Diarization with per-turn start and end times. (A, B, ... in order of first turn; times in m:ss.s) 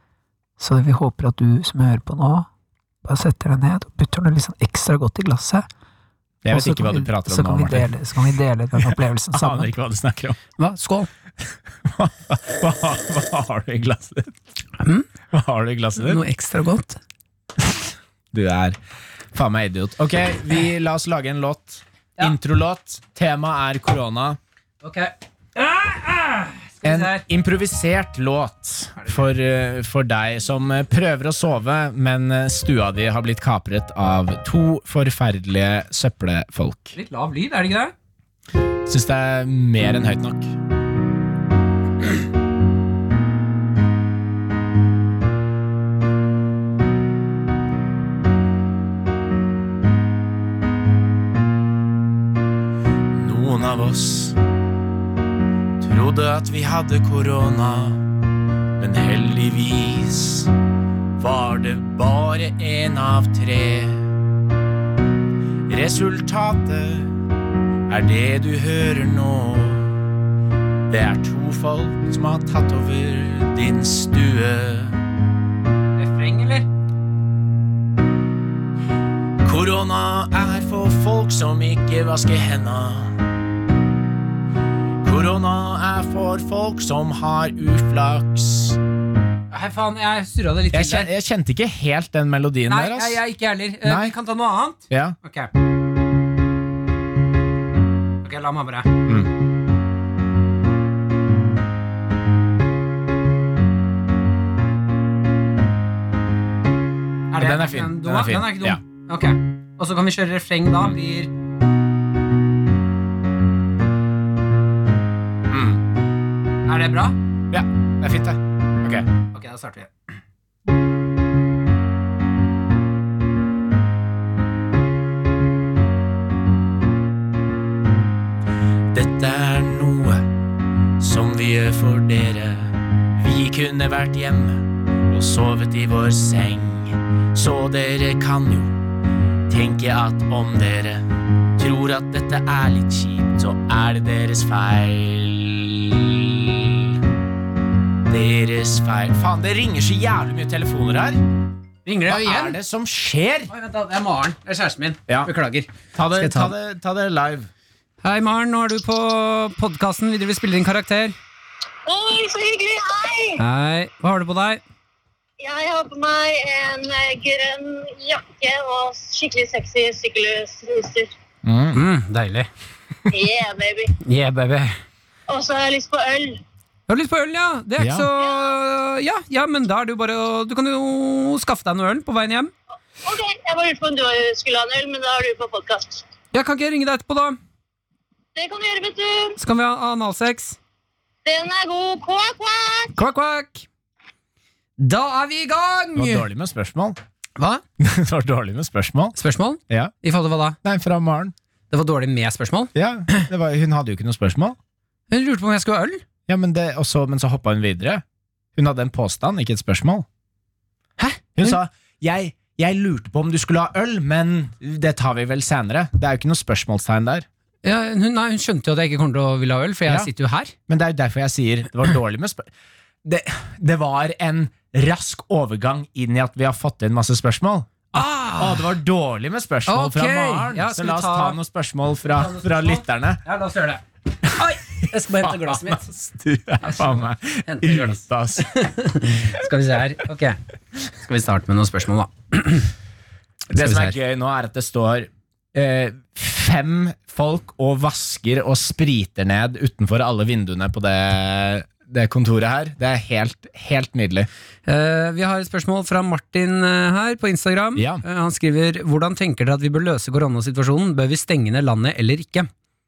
0:00.6-0:02.5 A
0:03.0-0:05.7 A
0:06.4-0:07.9 B
0:06.5-0:09.7 A
0:08.8-0:10.4 B
0:10.6-0:11.1 A
0:11.8-0:14.4 B
0:14.8-0:15.1 A
0:15.3-0:16.2 B
0:16.0-0:17.0 A
0:18.3-0:18.8 B
0:19.3-0:24.4 B
0:24.8-0:27.2 A
0:26.8-0:37.0 B
0:37.0-0:37.9 A
0:38.9-0:40.5 B
0:53.1-0:54.4 B
0:55.8-0:58.0 B
0:58.8-1:00.5 B
1:01.2-1:04.1 B
1:05.7-1:07.1 B
1:07.9-1:10.0 B
1:10.9-1:15.0 B
1:16.0-1:16.7 A
1:19.4-1:23.2 B
1:25.0-1:28.8 B
1:29.5-1:31.1 A
1:30.7-1:33.2 B
1:32.7-1:35.5 A
1:33.8-1:34.1 B
1:34.9-1:35.2 B
1:38.2-1:38.9 A
1:39.1-1:39.3 B
1:47.3-1:51.3 A
1:47.4-1:48.8 B
1:55.5-1:55.8 B
1:56.7-1:57.2 A
1:57.5-1:59.1 B
1:59.3-1:59.9 A
2:08.9-2:10.2 B
2:11.0-2:18.8 B
2:19.5-2:27.0 B
2:28.1-2:31.2 B
2:31.9-2:32.6 A
2:32.1-2:33.5 B
2:33.5-2:36.5 A
2:35.9-2:37.5 B
2:38.0-2:41.2 A
2:41.9-2:43.4 C
2:43.4-2:44.6 A
2:45.4-2:51.1 C
2:51.4-2:51.8 B
2:51.7-2:52.5 A
2:53.1-2:53.9 C
2:54.0-2:54.8 A
2:55.3-2:56.4 C
2:56.9-3:02.5 A
2:57.8-2:58.1 B
2:58.2-2:58.5 C
3:03.0-3:06.0 C
3:06.3-3:07.4 A
3:08.4-3:09.4 C
3:09.4-3:10.6 A
3:11.2-3:12.9 C
3:13.0-3:13.7 A
3:14.8-3:16.3 A
3:16.0-3:17.0 B
3:17.8-3:19.2 B
3:19.2-3:20.6 A
3:20.6-3:21.3 B
3:21.7-3:23.3 A
3:22.8-3:24.6 B
3:25.1-3:26.0 A
3:26.3-3:28.0 B
3:28.6-3:30.1 B
3:31.0-3:31.6 A
3:31.4-3:37.3 B
3:37.6-3:40.5 A
3:40.7-3:42.5 B
3:43.0-3:53.2 B
3:47.9-3:48.7 A
3:49.7-3:51.4 A
3:52.1-3:55.8 A
3:54.2-3:58.5 B
3:56.6-4:02.7 A
4:03.5-4:14.3 B
4:03.5-4:04.0 A
4:14.7-4:22.5 A
4:17.8-4:18.0 B